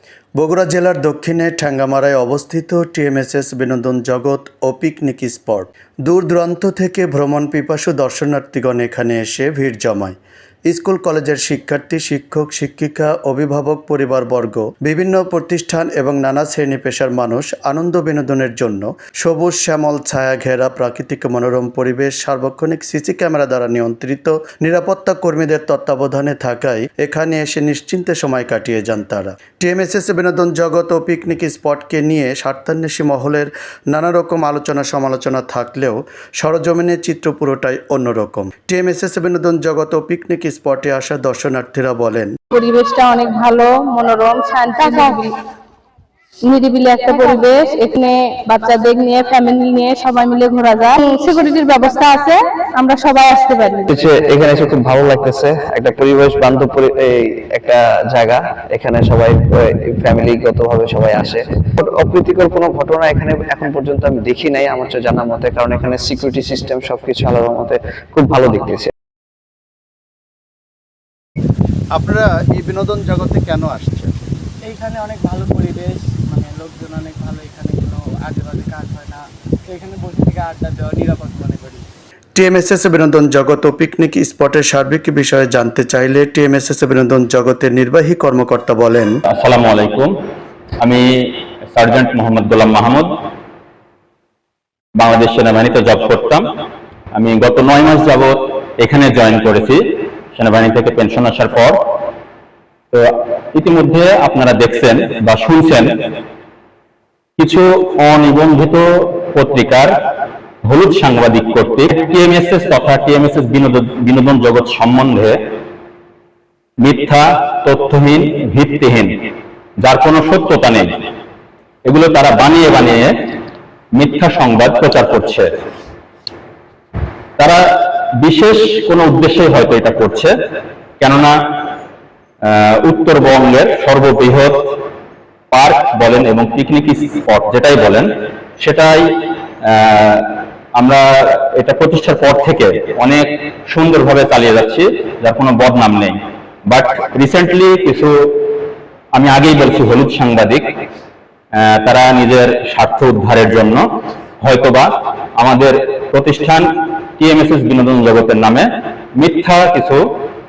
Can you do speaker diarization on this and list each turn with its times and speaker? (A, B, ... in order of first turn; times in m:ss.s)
0:00.4-0:42.4 A
0:42.5-0:45.4 B
0:46.4-0:54.1 B
0:53.9-1:08.9 C
1:12.0-1:14.1 A
1:14.6-1:21.8 D
1:22.4-1:29.2 A
1:29.3-1:30.1 E
1:30.8-1:33.1 E
1:35.0-1:36.4 E
1:37.1-1:39.8 E
1:40.3-1:42.0 E
1:42.9-1:46.0 E
1:47.4-1:49.9 E
1:50.6-1:55.4 E
1:56.8-1:59.2 E
1:59.8-2:00.9 E
2:01.8-2:03.3 E
2:03.9-2:05.5 E
2:07.4-2:10.3 E
2:11.0-2:11.3 E
2:12.4-2:14.7 E
2:15.5-2:28.6 E
2:29.1-2:30.8 E
2:31.6-2:33.8 E
2:34.4-2:40.0 E